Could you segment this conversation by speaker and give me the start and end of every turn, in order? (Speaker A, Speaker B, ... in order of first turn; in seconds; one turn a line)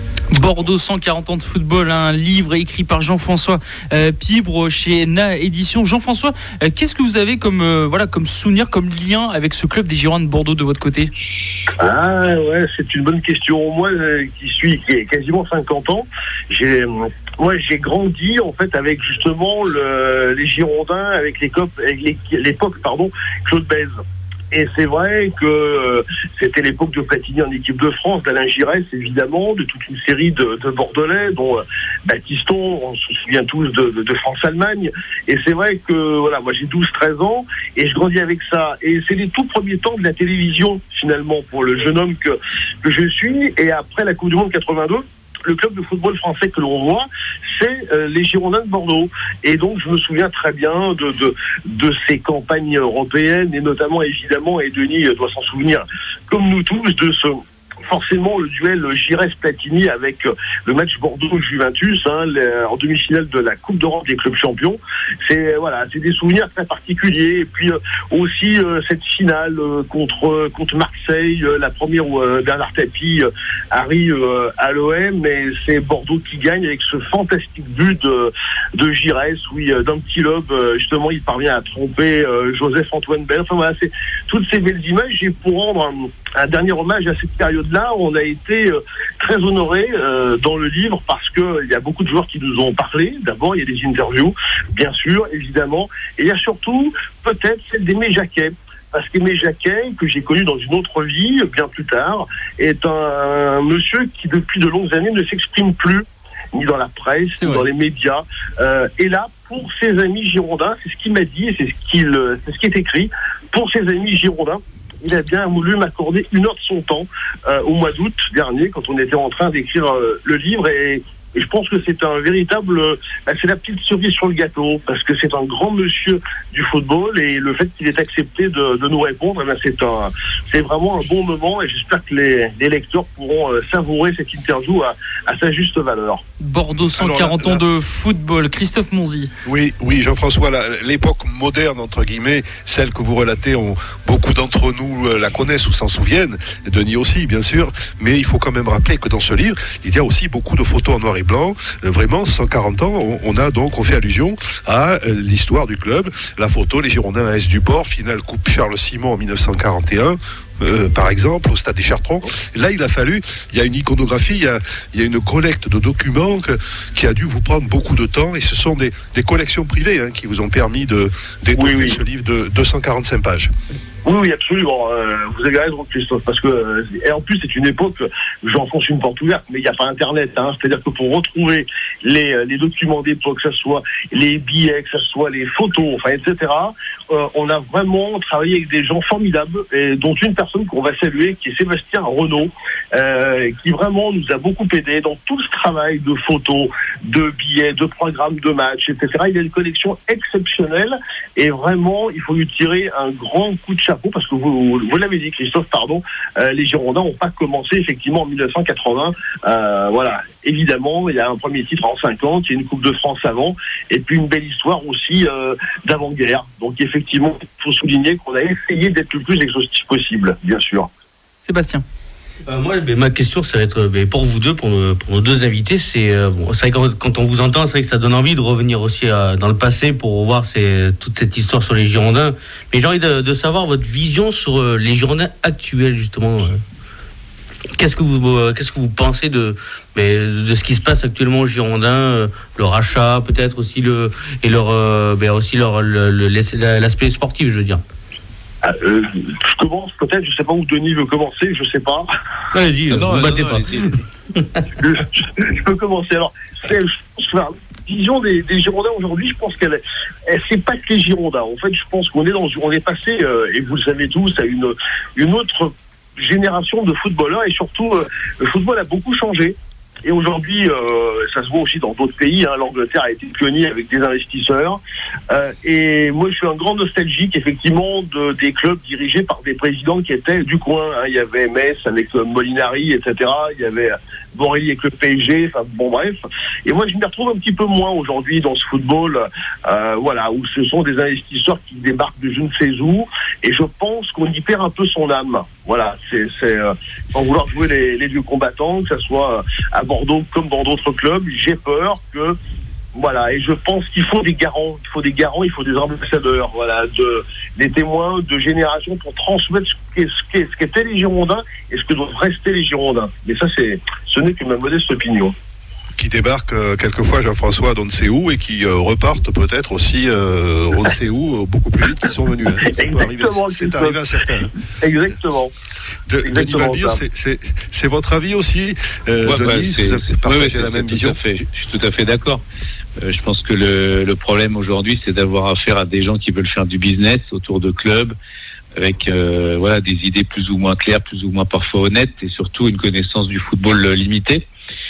Speaker A: 0.3-11.1
Speaker B: 11.8-24.0
Speaker B: 24.5-136.2
Speaker A: 107.4-107.7
Speaker A: 136.4-139.3
Speaker C: 136.9-137.6
Speaker C: 139.4-173.5
Speaker B: 171.6-172.0
Speaker B: 174.0-220.9
Speaker A: 221.4-221.8
Speaker D: 222.4-236.6
Speaker D: 237.8-247.8
Speaker B: 248.6-252.1
Speaker D: 252.5-254.0
Speaker E: 252.9-254.0
Speaker B: 254.8-274.8
Speaker B: 275.3-302.4
Speaker B: 302.9-315.3
Speaker C: 315.9-324.5
Speaker B: 322.6-325.5
Speaker C: 326.1-331.2
Speaker B: 326.2-327.0
Speaker E: 329.2-332.4
Speaker E: 333.0-338.1
Speaker E: 338.8-344.5